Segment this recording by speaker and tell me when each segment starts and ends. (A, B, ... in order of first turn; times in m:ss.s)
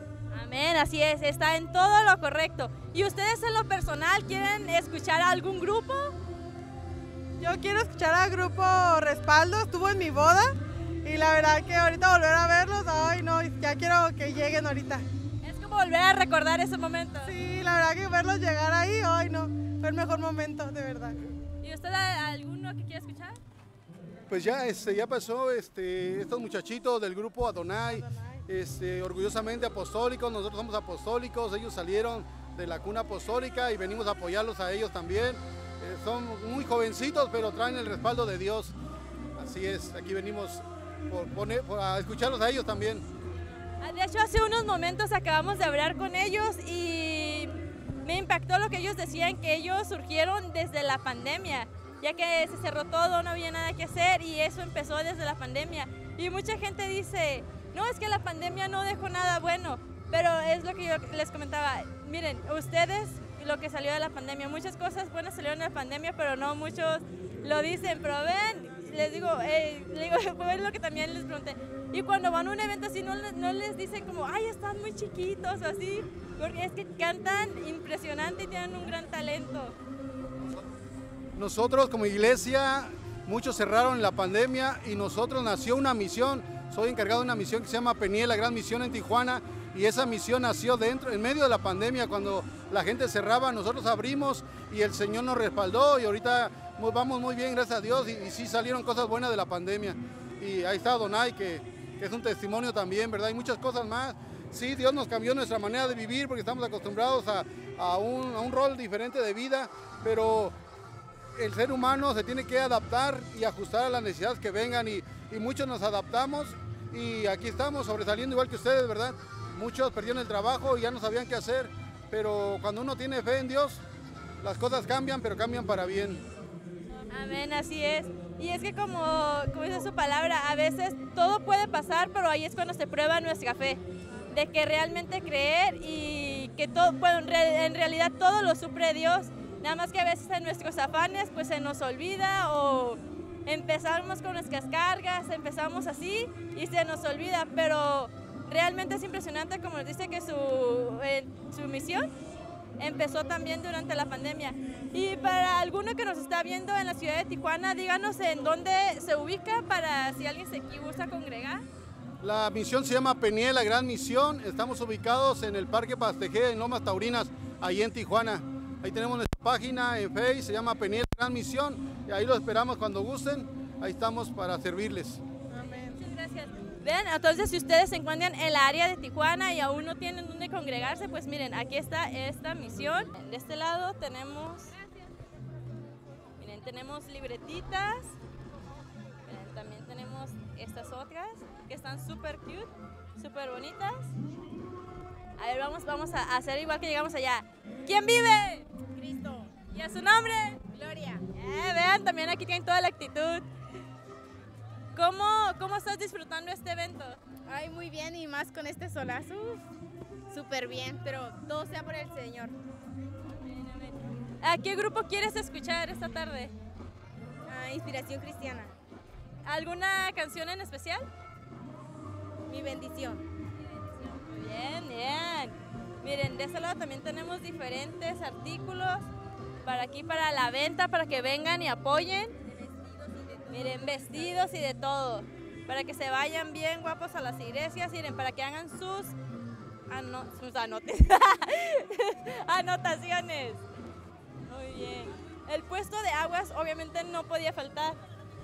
0:00.3-0:06.1 A
0:07.4-0:15.0 B
0:15.4-0:17.3 A
0:17.2-0:21.1 B
0:21.6-0:23.4 A
0:24.3-0:38.7 C
0:27.8-0:28.4 B
0:39.4-0:43.0 C
0:43.8-1:19.7 A
1:21.4-1:50.5 C
1:51.4-2:03.8 C
2:04.4-2:06.2 C
2:07.1-2:32.1 A
2:32.8-2:41.6 A
2:42.2-2:55.2 C
2:55.5-2:56.0 B
2:55.6-3:04.7 A
3:06.4-3:08.1 A
3:09.3-3:14.1 A
3:15.4-3:18.7 A
3:18.9-3:19.5 D
3:19.7-3:20.6 A
3:20.7-3:21.2 D
3:21.3-3:23.4 A
3:24.9-3:27.2 A
3:27.5-3:29.6 D
3:30.3-3:32.5 D
3:33.4-3:36.5 A
3:37.5-3:38.7 D
3:39.4-3:41.1 A
3:42.5-3:43.2 D
3:43.8-3:49.1 A
3:49.6-3:52.3 A
3:52.4-3:53.5 D
3:53.5-3:59.1 A
3:59.9-4:03.6 A
4:04.5-4:08.0 A